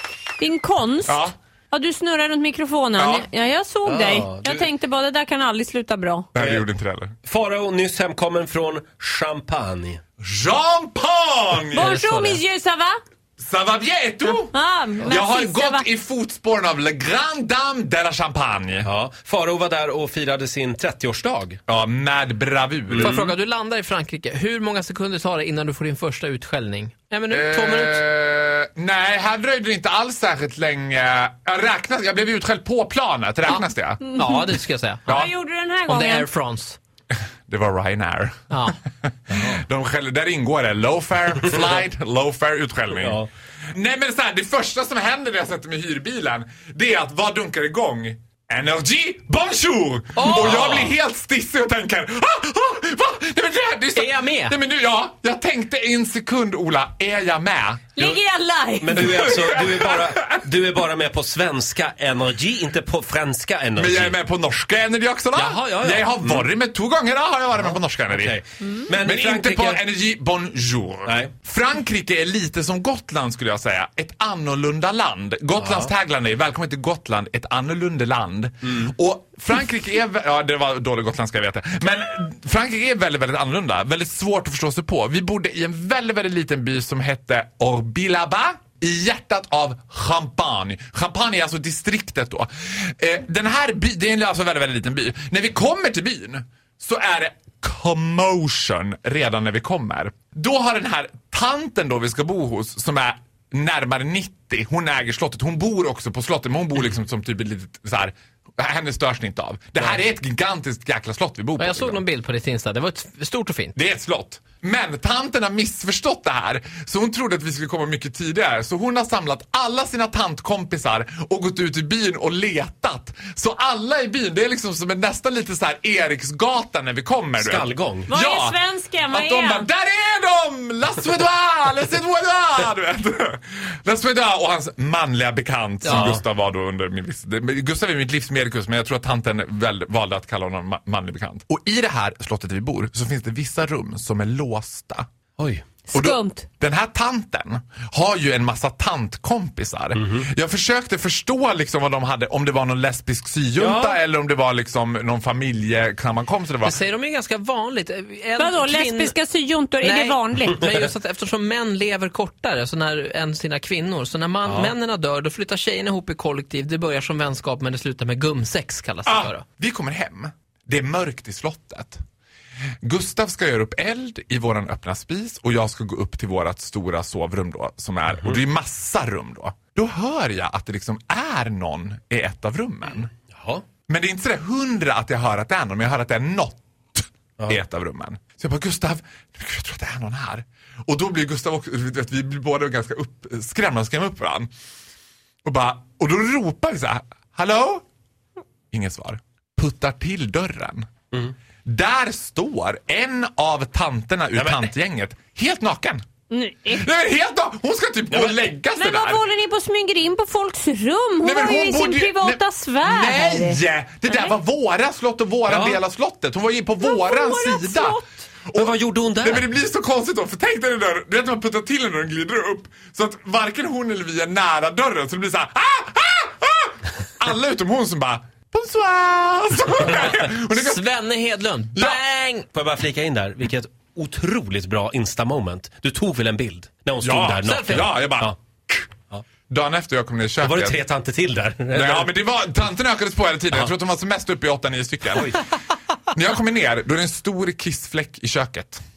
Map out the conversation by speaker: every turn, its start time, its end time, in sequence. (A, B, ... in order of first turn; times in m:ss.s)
0:00.4-0:01.2 A
0:01.0-0:01.3 B
0:01.7-0:06.3 A
0:03.0-0:03.3 B
0:03.8-0:04.7 C
0:06.3-0:07.1 B
0:06.4-0:06.6 C
0:07.2-0:10.0 C
0:10.2-0:12.0 B
0:11.7-0:12.4 D
0:11.8-0:13.0 A
0:13.4-0:14.5 B
0:14.3-0:15.9 A
0:15.0-0:18.9 B
0:18.8-0:21.6 C
0:21.7-0:23.2 B
0:22.9-0:23.3 C
0:23.0-0:28.0 D
0:27.3-0:34.1 B
0:33.5-0:35.3 D
0:34.2-0:34.4 A
0:35.1-0:35.3 B
0:35.2-0:36.3 A
0:35.9-0:36.8 D
0:37.5-0:43.2 B
0:38.5-0:38.8 D
0:39.3-0:39.6 C
0:43.0-0:43.3 C
0:43.7-0:57.9 B
0:50.2-0:50.9 D
0:50.2-0:50.9 C
0:53.9-0:54.6 D
0:58.0-0:59.2 A
0:58.8-1:04.2 C
0:59.0-1:00.1 B
1:03.8-1:08.4 B
1:05.3-1:06.5 C
1:07.6-1:09.8 C
1:09.0-1:52.0 B
1:11.0-1:11.3 C
1:15.6-1:15.9 C
1:51.6-1:53.7 D
1:53.7-2:25.1 B
2:07.4-2:08.1 C
2:08.1-2:09.6 A
2:15.8-2:16.2 D
2:15.8-2:16.2 C
2:25.4-2:25.6 C
2:25.9-2:36.8 B
2:25.9-2:26.5 A
2:36.6-2:39.1 D
2:38.4-2:40.6 A
2:39.8-2:49.4 D
2:44.4-2:44.7 C
2:49.0-2:52.0 B
2:52.8-3:03.1 B
3:03.3-3:03.6 C
3:03.9-3:14.5 B
3:15.4-3:17.8 B
3:18.7-3:20.9 B
3:21.6-3:26.0 B
3:24.4-3:24.7 C
3:26.3-3:26.9 A
3:26.6-3:29.2 B
3:28.1-3:28.4 C
3:28.7-3:34.3 A
3:31.2-3:50.8 B
3:35.5-3:35.8 C
3:36.8-3:38.0 A
3:38.5-3:39.5 C
3:50.2-3:52.5 D
3:52.5-3:58.4 C
3:57.0-3:58.9 B
3:57.4-3:58.0 D
3:59.5-4:00.8 B
4:00.4-4:02.1 C
4:01.7-4:05.3 B
4:06.1-4:08.8 B